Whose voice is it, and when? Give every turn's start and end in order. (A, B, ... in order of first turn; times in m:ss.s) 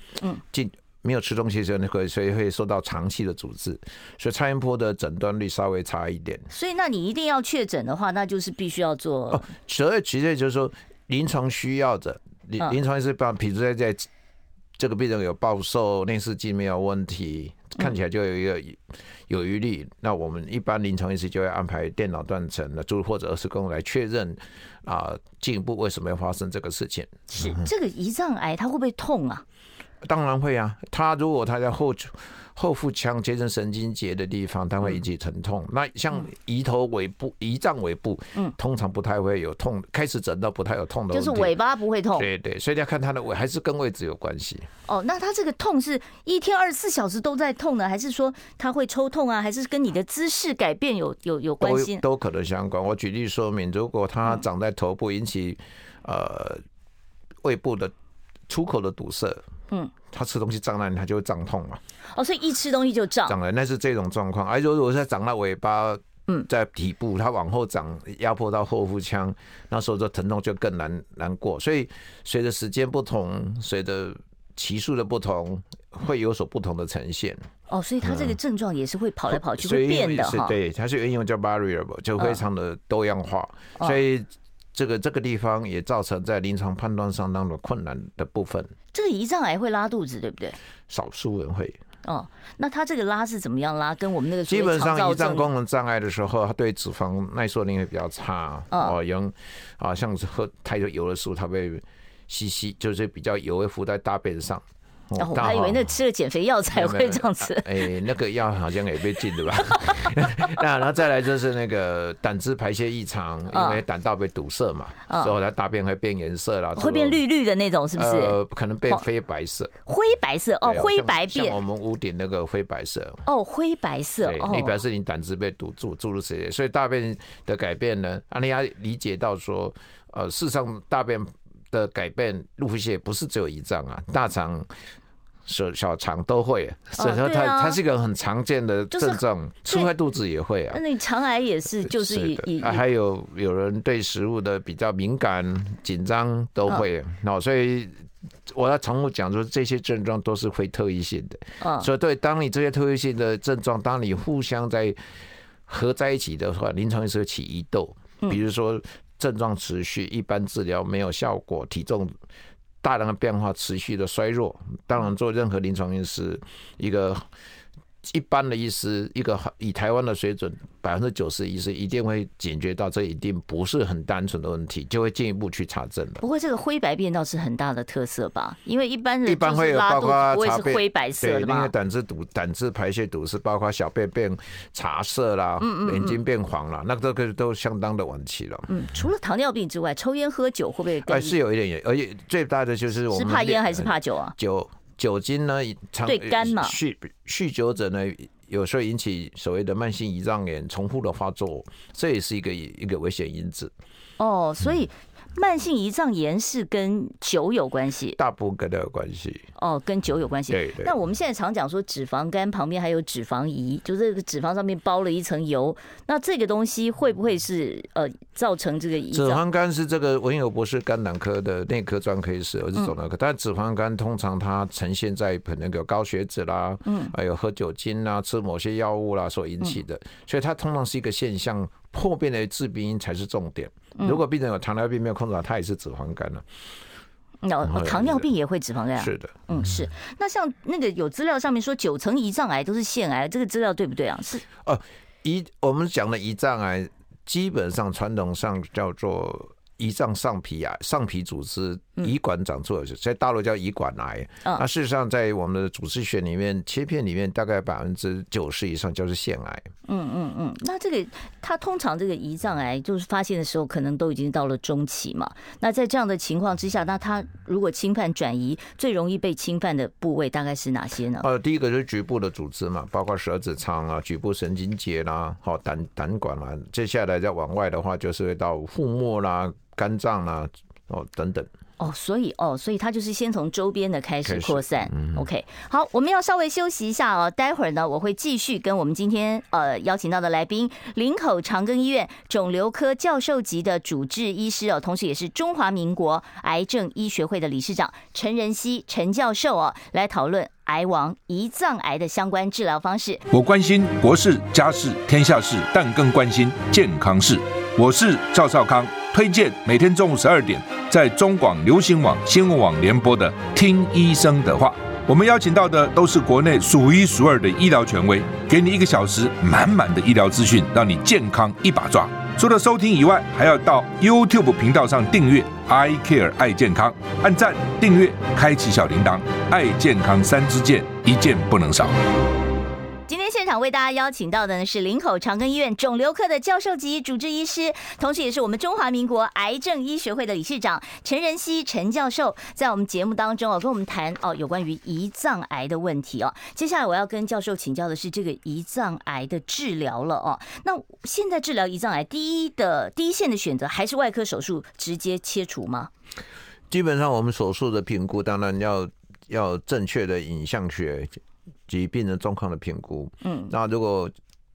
0:00.5-0:06.5 A
0:06.5-0:09.4 B
0:09.3-0:14.1 A
0:14.8-0:27.7 A
0:27.3-0:29.4 B
0:30.0-0:41.6 A
0:41.1-0:42.3 B
0:42.1-0:44.7 A
0:44.9-0:52.0 B
0:51.6-0:56.6 A
0:57.4-0:57.9 A
0:58.5-0:59.4 A
1:00.1-1:01.8 A
1:02.2-1:03.4 B
1:03.3-1:17.5 A
1:17.7-1:20.6 B
1:18.0-1:18.4 A
1:19.3-1:28.7 A
1:28.9-1:30.6 B
1:30.9-1:31.8 A
1:32.0-1:35.5 B
1:34.5-1:45.9 A
1:45.2-1:47.8 B
1:46.7-1:57.2 A
1:49.7-1:49.9 B
1:53.5-1:53.8 B
1:55.1-1:55.3 B
1:56.8-1:58.4 B
1:58.0-1:59.7 A
1:59.9-2:01.6 B
2:00.6-2:03.2 A
2:03.2-2:04.8 B
2:04.2-2:14.7 A
2:15.5-2:20.8 A
2:17.0-2:17.8 B
2:18.9-2:19.9 B
2:20.7-2:22.8 B
2:21.9-2:35.0 A
2:31.6-2:31.9 B
2:35.7-2:42.2 A
2:42.8-2:47.3 A
2:48.0-2:56.2 A
2:56.2-3:01.7 B
2:59.3-3:08.8 A
3:05.6-3:06.2 B
3:08.7-3:11.4 B
3:11.0-3:23.7 A
3:13.1-3:14.4 B
3:16.1-3:16.8 B
3:24.2-3:28.2 B
3:28.2-3:29.5 A
3:29.6-3:39.4 B
3:30.5-3:30.9 A
3:39.1-3:56.5 A
3:46.9-3:47.1 B
3:57.4-4:04.4 B
3:57.7-3:58.3 A
3:59.0-3:59.4 A
4:04.6-4:19.7 A
4:19.9-4:31.3 B
4:31.2-4:41.5 A
4:41.8-5:03.2 B
4:44.2-4:45.3 A
5:03.3-5:32.0 C
5:33.1-5:55.9 B
5:56.7-6:04.1 A
6:03.2-6:03.5 B